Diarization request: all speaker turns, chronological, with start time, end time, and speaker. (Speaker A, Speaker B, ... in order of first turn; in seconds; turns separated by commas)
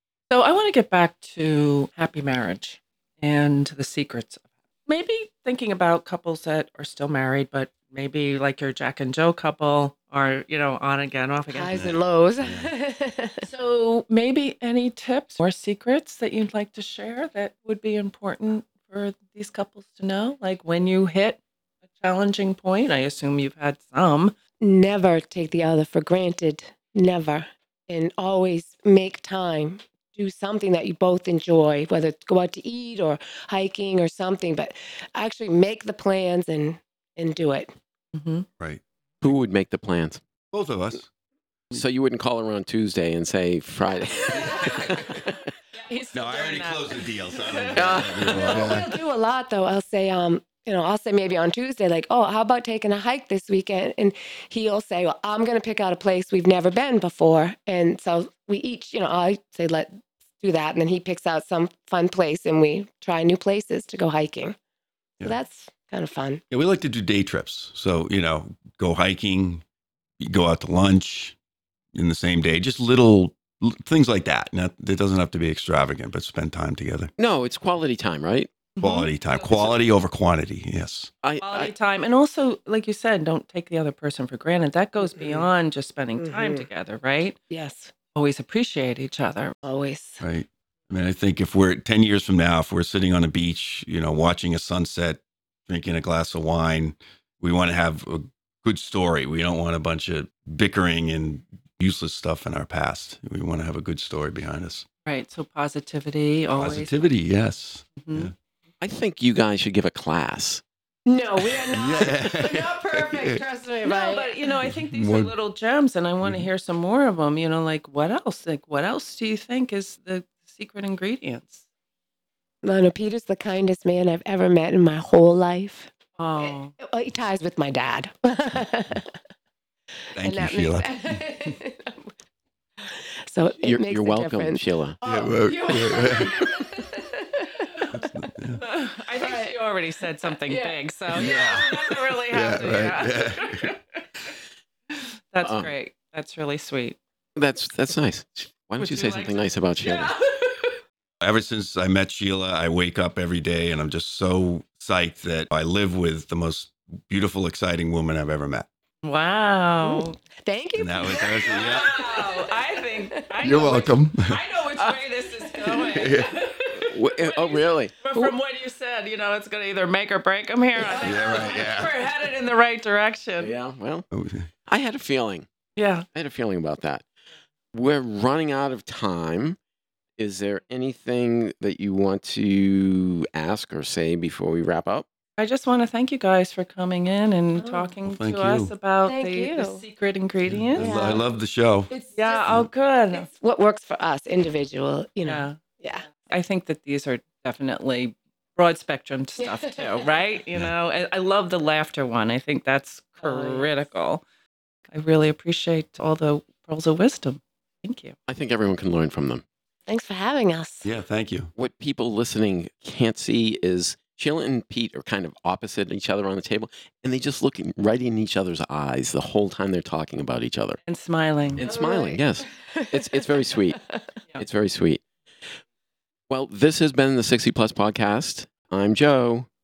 Speaker A: 0.3-11.8, Speaker B: 11.5-13.4, Speaker C: 11.7-12.7, Speaker A: 13.4-21.4, Speaker A: 22.0-24.4, Speaker B: 24.6-37.7, Speaker A: 38.1-38.5, Speaker D: 39.2-40.2, Speaker C: 40.5-41.1, Speaker D: 41.7-45.3, Speaker B: 44.3-44.9, Speaker C: 44.3-44.8, Speaker A: 45.8-47.0, Speaker C: 46.1-48.9, Speaker B: 47.7-64.6, Speaker D: 47.8-48.7, Speaker B: 65.2-66.4, Speaker C: 66.5-69.6, Speaker C: 70.2-71.4, Speaker C: 71.9-77.1, Speaker D: 77.2-78.5, Speaker A: 78.8-79.1, Speaker C: 78.8-81.1, Speaker D: 79.3-79.8, Speaker D: 81.2-81.7, Speaker A: 81.4-87.4, Speaker B: 85.0-85.5, Speaker B: 86.2-86.7, Speaker B: 87.5-87.9, Speaker A: 88.2-89.6, Speaker B: 89.6-90.2, Speaker C: 90.2-104.9, Speaker A: 105.0-107.1, Speaker C: 106.6-108.3, Speaker A: 108.0-108.3, Speaker D: 108.8-110.6, Speaker B: 111.1-114.5, Speaker C: 111.7-113.4, Speaker A: 113.8-121.7, Speaker C: 114.6-115.3, Speaker C: 116.2-116.5, Speaker B: 122.6-129.2, Speaker A: 126.2-126.7, Speaker C: 130.2-131.2, Speaker B: 130.2-132.1, Speaker B: 132.8-137.8, Speaker D: 133.6-135.0, Speaker C: 135.0-136.4, Speaker C: 137.9-138.6, Speaker A: 138.5-144.3, Speaker B: 139.2-139.6, Speaker B: 140.5-141.6, Speaker C: 141.1-143.7, Speaker A: 144.9-147.0, Speaker D: 145.4-145.7, Speaker D: 147.4-150.2, Speaker A: 148.8-150.8, Speaker C: 151.2-158.7, Speaker A: 159.0-160.2, Speaker B: 159.8-163.2, Speaker C: 160.8-161.9, Speaker A: 161.4-173.5, Speaker C: 163.4-164.4, Speaker C: 165.9-166.3, Speaker D: 166.8-168.0, Speaker B: 170.8-171.3, Speaker C: 171.0-172.0, Speaker D: 173.4-174.1, Speaker C: 174.1-174.5, Speaker D: 174.7-175.5, Speaker A: 175.8-176.1, Speaker D: 176.1-177.1, Speaker D: 177.7-179.6, Speaker D: 180.2-185.1, Speaker A: 185.4-191.0, Speaker B: 187.6-187.9, Speaker C: 188.1-188.7, Speaker B: 189.1-189.8, Speaker C: 190.4-191.9, Speaker B: 190.8-191.3, Speaker B: 191.9-192.6, Speaker A: 192.2-193.3, Speaker B: 193.1-196.1, Speaker A: 195.3-195.6, Speaker A: 196.1-204.2, Speaker B: 199.4-200.1, Speaker B: 203.2-203.8, Speaker A: 204.9-208.2, Speaker D: 208.3-209.4, Speaker B: 209.9-210.9, Speaker C: 210.8-211.5, Speaker D: 211.6-220.8, Speaker A: 220.8-221.7, Speaker D: 221.6-223.8, Speaker B: 221.6-224.0, Speaker D: 224.4-225.0, Speaker D: 226.3-229.5